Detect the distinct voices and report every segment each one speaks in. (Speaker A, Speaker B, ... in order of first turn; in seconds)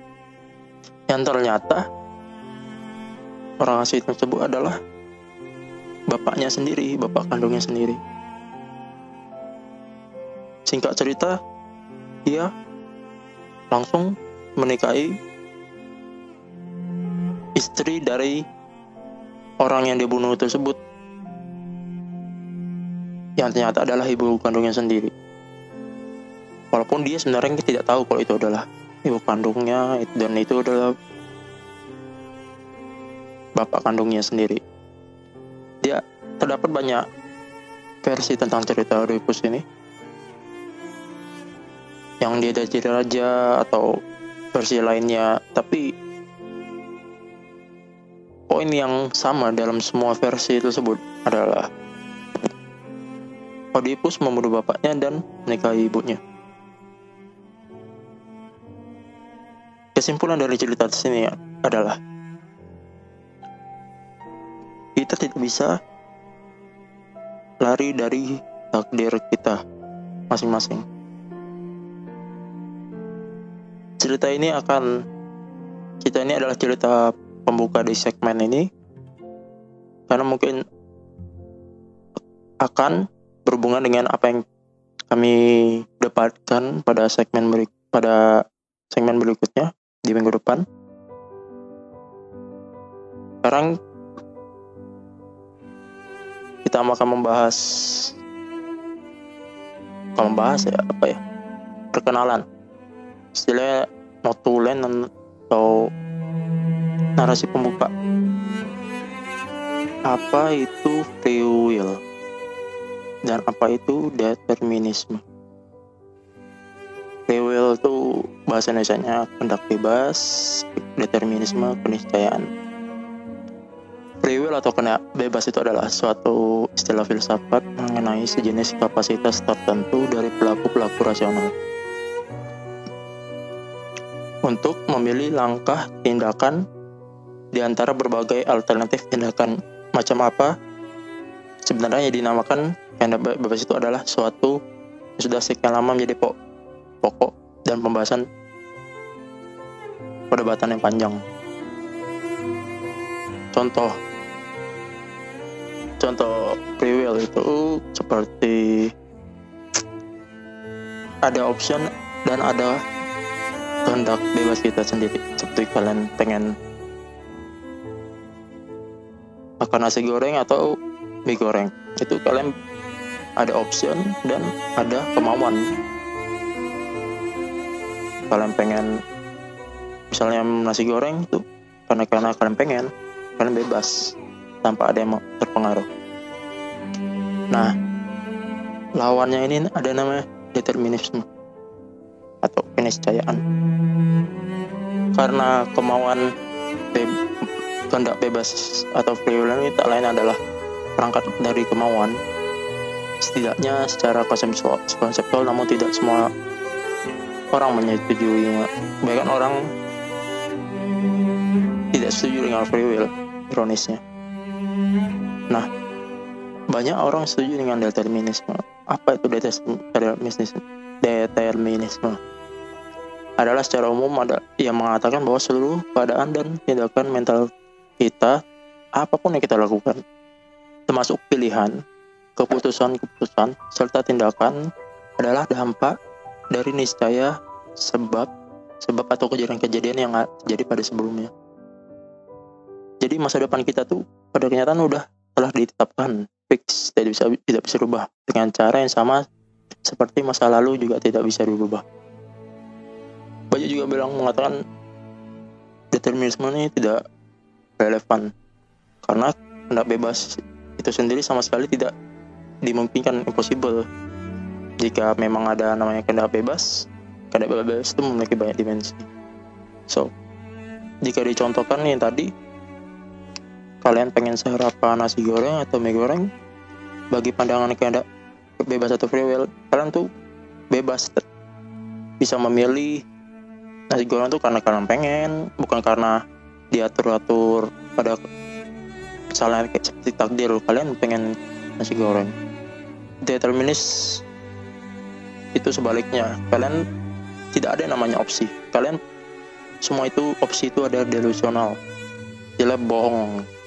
Speaker A: 1.1-1.8, 3.6-4.8, 6.1-8.0, 10.7-11.3, 13.7-15.1, 17.6-18.4, 19.6-20.8, 23.4-25.1, 26.7-30.9, 33.6-34.6, 35.8-37.0, 38.0-39.6, 42.2-43.9, 44.5-45.9, 48.5-51.7, 53.7-56.2, 59.9-62.0, 65.0-65.8, 67.6-69.6, 70.3-70.8, 74.0-74.9, 76.0-78.7, 80.1-80.6, 82.6-84.4, 85.1-90.6, 93.4-93.8, 96.6-98.1, 100.2-101.2, 101.9-102.4, 103.3-105.9, 107.2-107.9, 110.1-112.0, 113.2-115.2, 117.3-122.4, 124.2-131.5, 134.5-136.6, 137.5-140.5, 141.7-144.6, 145.2-146.3, 147.0-148.2, 150.3-151.2, 153.5-153.9, 156.0-158.9, 161.2-162.8, 163.8-166.5, 169.6-170.7, 171.3-172.5, 173.4-175.7, 178.3-179.0, 180.1-185.9, 189.0-191.2, 192.4-193.4, 195.1-196.3, 197.9-200.4, 201.0-202.2, 203.2-206.3, 207.5-209.6, 211.9-214.0, 216.7-222.2, 223.4-227.5, 228.0-228.4, 229.0-230.0, 230.9-231.8, 232.4-234.6, 235.2-235.9, 236.5-238.3, 238.8-241.3, 243.0-249.2, 249.8-251.8, 253.5-254.6, 255.9-257.0, 257.8-258.3, 259.0-261.9, 262.6-263.8, 264.8-269.1, 271.0-272.3, 273.8-276.3, 277.1-278.0, 278.6-280.1, 280.7-281.2, 282.2-283.0, 283.9-286.2, 286.7-288.2, 289.3-292.3, 293.2-294.2, 295.5-296.8, 297.5-299.0, 299.8-301.8, 302.6-303.4